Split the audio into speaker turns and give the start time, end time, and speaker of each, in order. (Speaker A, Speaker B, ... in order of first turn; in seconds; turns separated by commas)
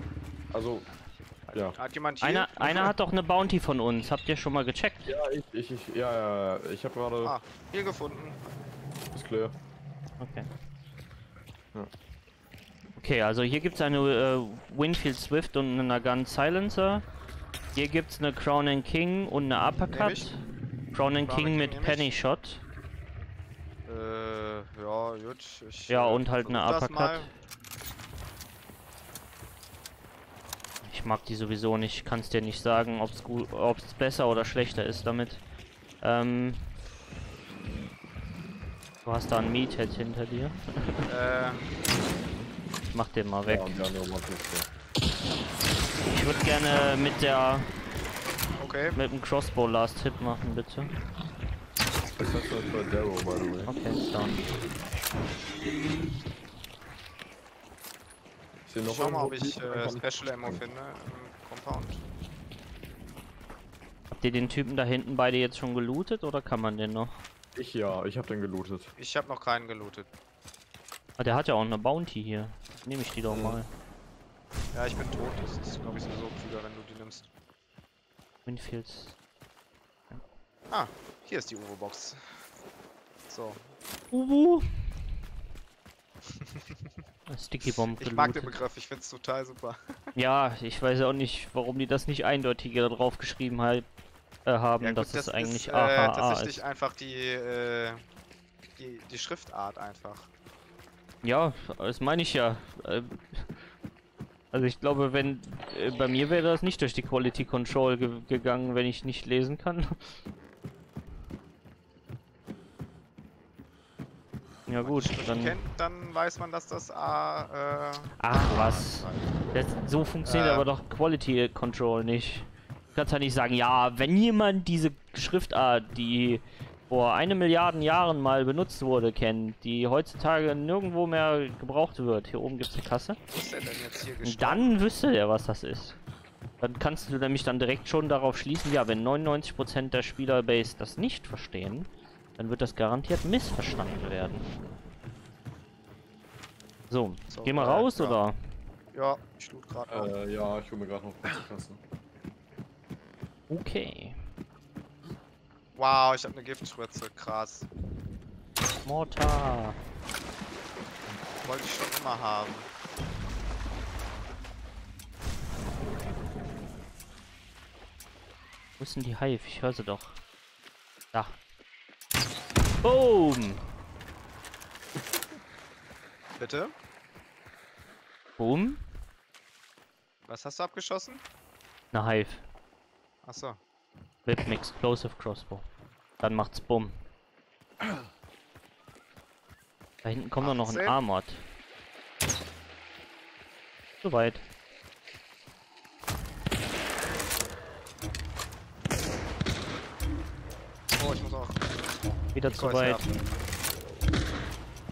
Speaker A: 0.5-0.9, Speaker B: 1.1-1.6, Speaker C: 1.8-2.6, Speaker B: 2.2-5.1, Speaker A: 2.6-2.9, Speaker A: 5.1-7.3, Speaker C: 7.2-8.5, Speaker A: 9.1-9.6, Speaker B: 10.2-10.5, Speaker B: 13.0-17.1, Speaker B: 17.7-20.4, Speaker C: 19.9-20.3, Speaker B: 20.9-22.6, Speaker C: 21.2-22.1, Speaker C: 23.9-27.3, Speaker B: 25.9-27.3, Speaker B: 30.8-35.4, Speaker B: 36.0-36.8, Speaker B: 39.0-41.0, Speaker C: 41.0-41.8, Speaker B: 42.9-43.7, Speaker A: 43.5-44.7, Speaker B: 46.1-47.7, Speaker C: 48.6-49.0, Speaker B: 49.0-50.9, Speaker A: 52.2-53.7, Speaker B: 53.7-54.5, Speaker A: 58.7-60.6, Speaker C: 58.9-62.0, Speaker B: 64.1-67.2, Speaker A: 67.5-68.9, Speaker C: 69.0-70.1, Speaker B: 71.2-73.7, Speaker A: 73.3-73.6, Speaker C: 74.7-77.3, Speaker B: 78.5-79.2, Speaker C: 80.7-82.4, Speaker C: 83.3-83.7, Speaker B: 84.1-85.0, Speaker C: 86.3-86.9, Speaker B: 87.3-88.5, Speaker C: 87.7-90.1, Speaker B: 90.2-93.9, Speaker B: 94.5-96.6, Speaker C: 94.8-98.0, Speaker C: 98.8-100.3, Speaker B: 101.2-103.5, Speaker B: 104.5-110.0, Speaker B: 114.7-115.6, Speaker C: 114.8-119.4, Speaker B: 118.2-133.2, Speaker C: 120.2-120.7, Speaker C: 133.3-134.7, Speaker B: 134.2-136.0, Speaker B: 136.6-144.5, Speaker B: 146.9-148.4, Speaker C: 147.3-148.2, Speaker C: 148.9-150.1, Speaker A: 149.9-151.8, Speaker B: 153.5-154.2, Speaker C: 155.8-157.7, Speaker B: 158.8-159.8, Speaker C: 161.4-162.7, Speaker B: 168.8-170.2, Speaker B: 171.1-171.4, Speaker B: 172.8-173.6, Speaker C: 176.4-176.7, Speaker B: 178.4-178.8, Speaker C: 180.3-181.2, Speaker B: 181.9-182.4, Speaker C: 183.2-183.6, Speaker B: 184.3-185.7, Speaker B: 186.2-187.0, Speaker B: 190.0-191.4, Speaker C: 190.4-191.0, Speaker B: 194.0-194.4, Speaker C: 201.0-201.7, Speaker B: 202.3-203.0, Speaker C: 202.5-203.2